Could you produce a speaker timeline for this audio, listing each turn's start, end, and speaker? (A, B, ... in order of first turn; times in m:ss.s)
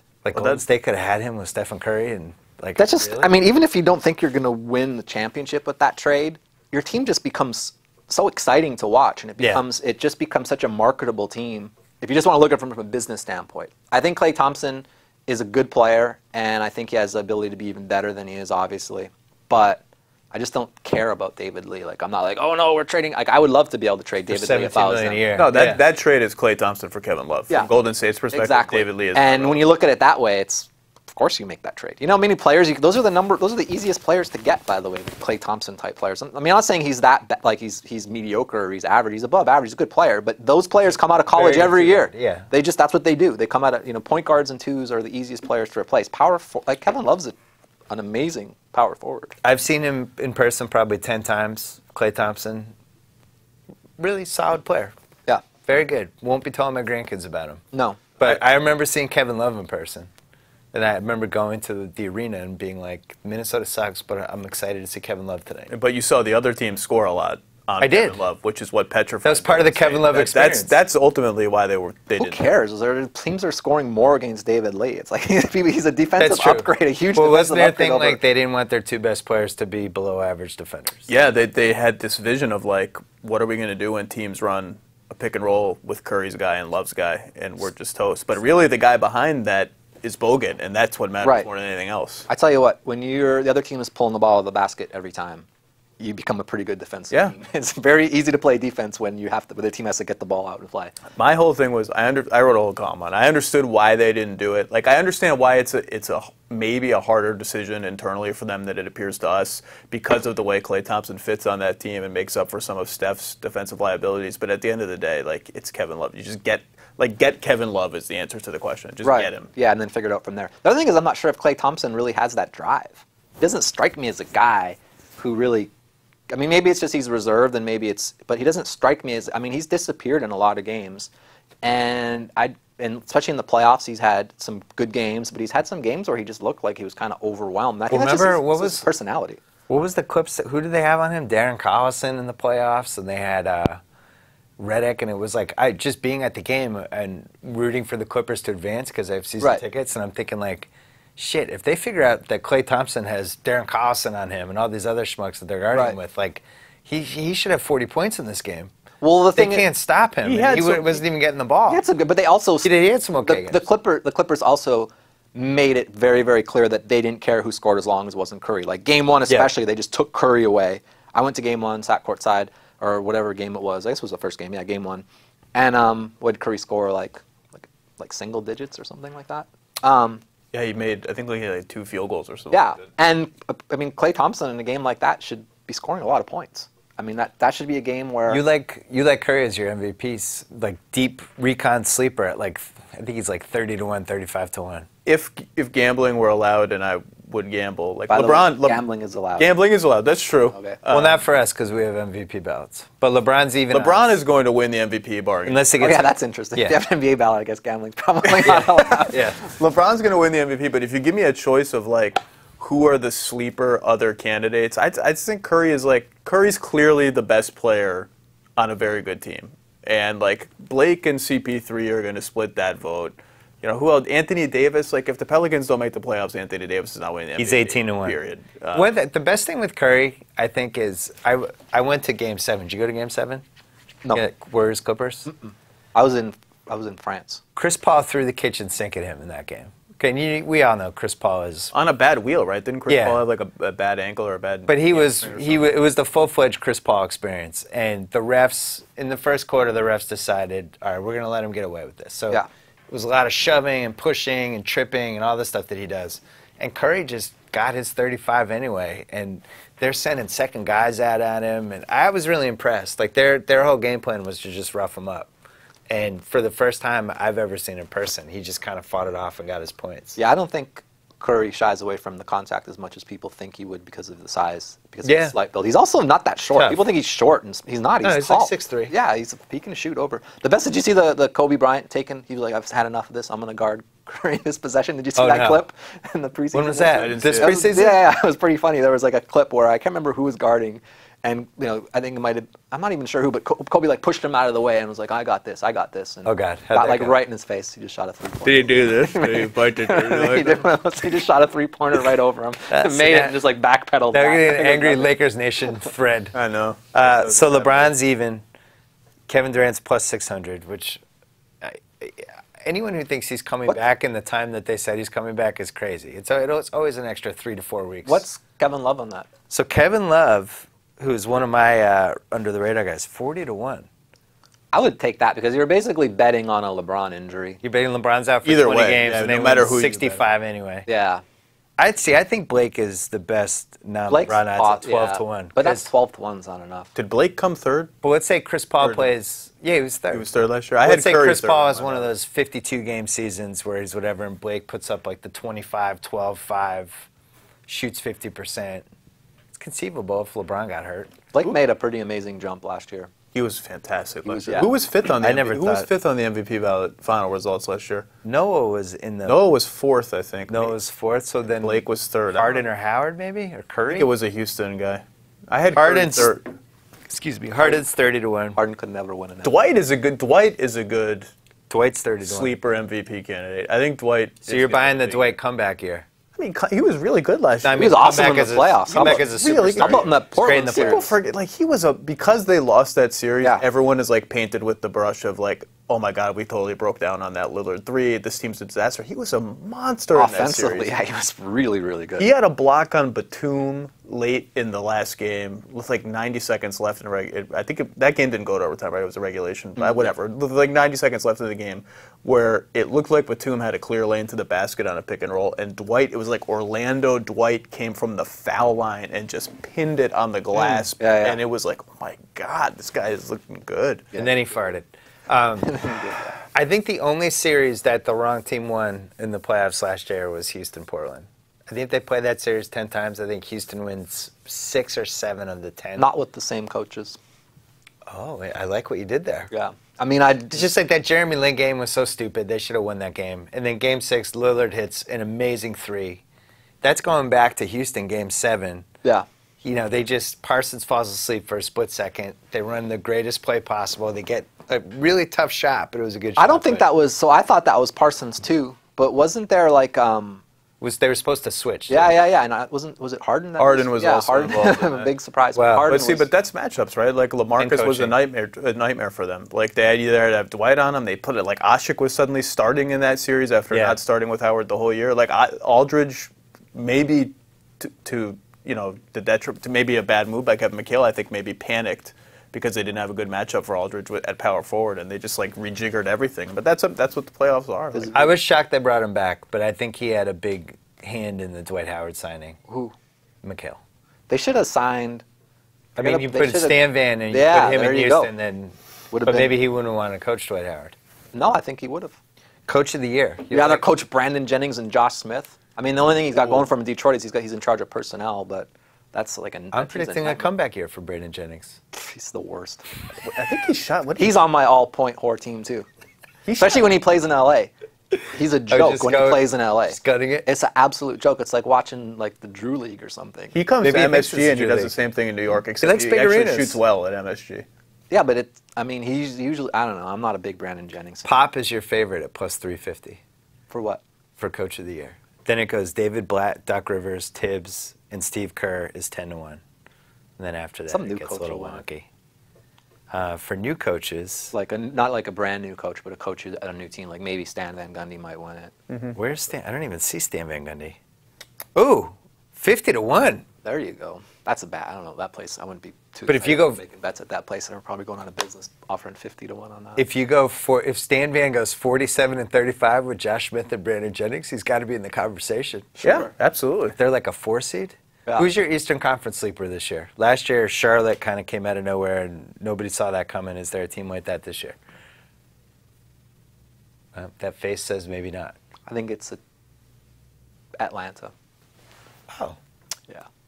0:00.2-0:03.4 A
0:00.3-0:00.6 B
0:02.8-0:25.3 C
0:24.2-0:25.8 A
0:25.3-0:29.6 B
0:28.3-0:47.3 C
0:41.3-0:42.5 A
0:47.9-0:49.4 C
0:49.4-0:52.7 A
0:54.0-0:54.9 A
0:55.6-0:57.6 A
0:57.7-0:58.0 C
0:58.2-1:00.1 A
1:00.7-1:05.7 A
1:05.7-1:12.5 B
1:07.8-1:08.2 A
1:09.2-1:10.7 A
1:12.2-1:18.2 C
1:16.2-1:21.1 A
1:21.1-1:32.3 B
1:31.2-1:31.5 C
1:32.3-1:35.4 C
1:36.0-1:41.0 C
1:37.1-1:37.4 B
1:41.1-1:59.5 B
1:59.0-2:05.7 C
2:06.3-2:11.1 C
2:11.6-2:19.4 C
2:17.9-2:18.8 A
2:19.7-2:23.8 A
2:24.6-2:38.7 A
2:39.0-2:39.6 C
2:39.4-2:41.8 A
2:40.2-2:41.0 B
2:41.7-2:42.7 C
2:42.6-2:43.6 A
2:43.2-3:00.2 C
3:00.5-3:02.8 B
3:02.5-3:08.4 C
3:08.3-3:14.9 A
3:15.0-3:18.8 B
3:18.1-3:19.5 C
3:19.4-3:21.2 B
3:20.5-3:20.8 C
3:20.9-3:24.1 A
3:23.7-3:25.7 B
3:25.4-3:26.8 A
3:25.8-3:29.3 C
3:28.4-3:29.4 A
3:28.4-3:48.9 B
3:47.4-3:48.2 A
3:48.7-3:53.4 A
3:54.1-3:55.3 A
3:55.3-3:57.4 C
3:57.6-4:01.7 A
4:01.7-4:05.7 B
4:02.9-4:03.2 A
4:04.7-4:25.3 A
4:25.9-4:30.2 A
4:30.2-5:05.1 C
4:35.0-4:35.3 A
4:36.6-4:36.8 A
4:38.0-4:38.9 A
4:45.2-4:45.6 A
4:46.5-4:48.0 A
4:46.9-4:47.6 B
4:56.2-4:57.2 A
4:58.4-5:00.7 B
5:02.7-5:03.4 A
5:04.1-5:06.3 A
5:06.3-5:07.9 B
5:07.0-5:08.4 A
5:09.3-5:11.0 A
5:11.6-5:18.2 A
5:18.0-5:19.3 C
5:19.5-5:23.9 A
5:24.7-5:27.6 C
5:27.6-5:30.9 A
5:28.4-5:30.2 B
5:30.9-5:31.2 C
5:31.8-5:35.9 A
5:34.1-5:36.9 C
5:36.9-5:37.9 B
5:38.0-5:40.3 A
5:38.8-5:39.1 B
5:40.1-5:42.1 B
5:40.8-5:47.0 A
5:47.7-5:48.8 A
5:49.6-5:51.1 A
5:51.3-5:53.1 C
5:53.3-5:58.1 B
5:54.2-5:54.7 C
5:55.2-5:55.9 A
5:58.2-5:59.4 A
5:59.2-6:00.8 B
6:00.5-6:04.1 A
6:01.6-6:02.6 B
6:03.9-6:06.4 B
6:05.7-6:06.4 A
6:07.1-6:08.6 A
6:08.6-6:09.5 C
6:09.4-6:11.3 B
6:11.7-6:12.5 A
6:12.2-6:15.3 B
6:14.4-6:16.0 A
6:16.4-6:18.1 B
6:17.6-6:21.1 A
6:17.7-6:21.1 C
6:18.9-6:30.9 B
6:30.1-6:32.3 C
6:32.2-6:54.1 B
6:39.8-6:40.1 C
6:51.0-6:51.4 C
6:54.1-6:55.8 A
6:55.6-6:56.3 C
6:56.5-7:06.1 A
7:06.0-7:07.2 C
7:08.0-7:09.5 A
7:09.5-7:10.6 C
7:10.5-7:16.2 A
7:16.8-7:18.9 A
7:19.6-7:26.9 A
7:26.4-7:30.4 C
7:30.8-7:32.2 A
7:31.9-7:36.3 C
7:33.6-7:35.1 B
7:35.5-7:36.0 A
7:35.8-7:58.2 B
7:37.6-7:38.1 A
7:43.7-7:44.0 A
7:57.9-7:58.3 C
7:58.1-8:02.6 A
8:02.7-8:02.9 C
8:03.4-8:03.8 A
8:04.3-8:05.2 C
8:06.0-8:08.3 C
8:06.0-8:10.9 A
8:09.1-8:09.5 C
8:11.3-8:12.2 C
8:12.6-8:13.9 A
8:13.5-8:20.5 C
8:19.7-8:21.8 A
8:21.9-8:22.8 C
8:23.2-8:24.4 B
8:24.2-8:25.9 C
8:26.5-8:26.9 B
8:26.6-8:27.7 C
8:28.3-8:33.5 C
8:28.7-8:30.4 A
8:33.5-8:37.6 B
8:33.8-8:34.9 A
8:35.8-8:36.8 A
8:38.1-8:41.3 C
8:41.2-8:43.2 A
8:43.7-8:44.0 C
8:44.4-8:49.6 A
8:50.4-8:52.0 A
8:50.9-8:51.8 C
8:53.1-8:54.5 A
8:54.5-8:58.7 C
8:58.9-8:59.2 B
8:59.1-9:01.0 A
9:01.7-9:03.4 A
9:03.6-9:10.0 C
9:06.3-9:06.8 A
9:10.0-9:16.0 A
9:16.0-9:16.3 C
9:16.0-9:17.0 B
9:17.0-9:24.8 A
9:27.1-9:28.5 A
9:28.9-9:29.4 C
9:30.8-9:31.3 C
9:32.3-9:32.6 A